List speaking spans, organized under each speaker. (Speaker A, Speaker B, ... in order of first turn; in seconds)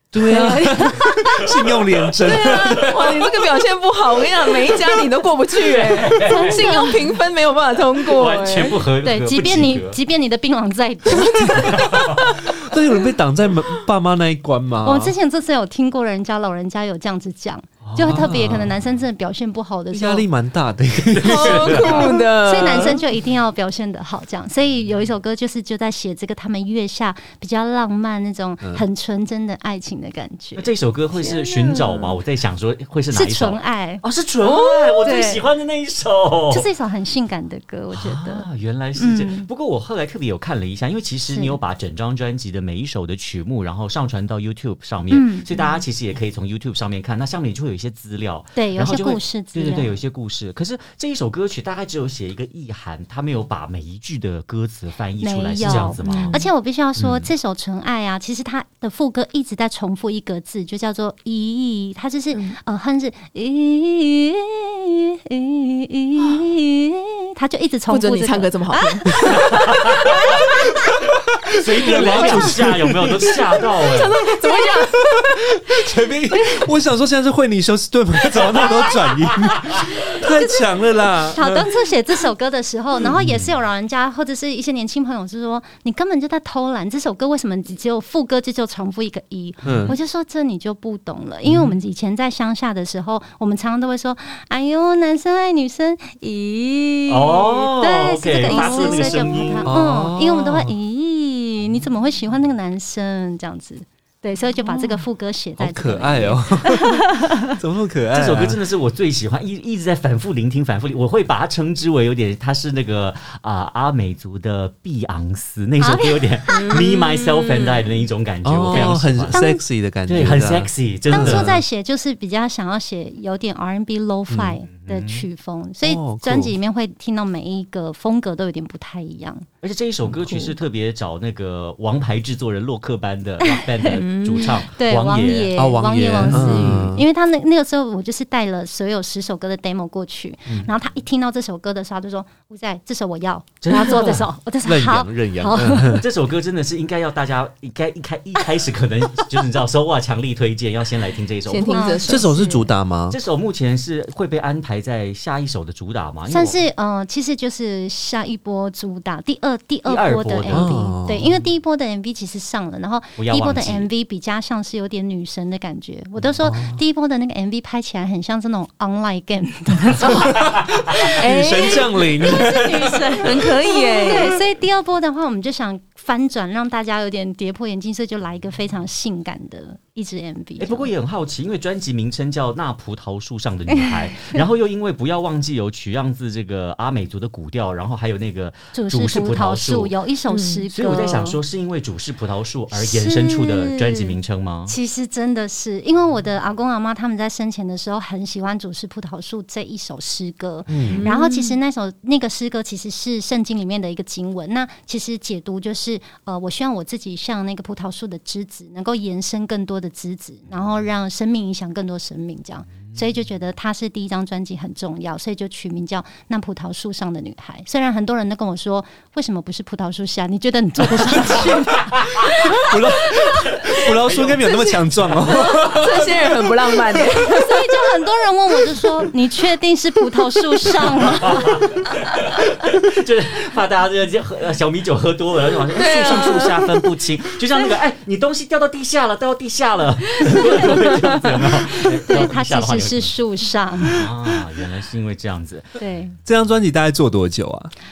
Speaker A: 0.1-3.2, 12.5-15.1, 18.0-18.7, 19.9-22.1, 71.3-73.4, 75.1-81.7, 89.6-90.0, 99.6-100.7, 105.6-108.6, 118.4-121.6, 124.3-124.6, 125.8-126.5, 135.6-137.0, 144.6-146.1, 152.1-153.2, 160.5-161.3, 166.4-166.8, 170.1-173.5, 200.7-201.1, 220.9-227.4, 246.2-247.7
Speaker B: 0.2-1.3, 6.2-7.1, 9.0-12.2, 14.8-20.2, 21.8-30.7, 33.1-34.0, 35.0-35.4, 36.5-39.5, 41.3-41.6, 45.1-45.8, 48.5-49.9, 55.2-71.0, 72.0-72.5, 74.4-75.0, 80.3-80.7, 81.2-107.6, 115.8-116.8, 118.7-119.6, 121.1-129.5, 133.4-134.0, 134.7-146.0, 151.7-152.6, 156.3-180.9, 183.7-184.3, 188.7-191.4, 192.7-223.5, 227.3-231.6, 240.3-240.8, 241.7-244.0, 245.8-246.1
Speaker C: 0.3-0.6, 2.2-8.8, 11.2-12.5, 21.1-23.0, 31.2-32.1, 34.4-35.4, 55.6-56.5, 62.3-62.6, 67.9-69.8, 71.9-72.6, 73.8-75.0, 98.5-99.3, 104.7-105.0, 116.5-117.9, 130.3-130.5, 133.9-134.6, 151.5-152.5, 171.2-171.8, 173.2-174.4, 190.3-190.6, 200.9-201.6, 225.2-227.5, 235.8-236.8
Speaker D: 1.6-3.0, 5.5-6.7, 8.0-10.0, 11.8-12.2, 17.8-18.9, 21.1-22.2, 30.6-36.7, 37.9-56.4, 57.0-57.3, 69.3-70.2, 71.6-74.1, 83.2-83.5, 89.7-89.9, 91.5-91.7, 97.1-99.7, 108.1-119.4, 120.1-121.6, 124.7-125.2, 129.6-135.5, 136.2-136.8, 143.6-144.3, 145.9-151.9, 153.1-156.6, 159.8-160.8, 163.2-163.9, 180.6-189.9, 190.7-194.8, 223.6-225.2, 231.2-243.1, 243.9-245.9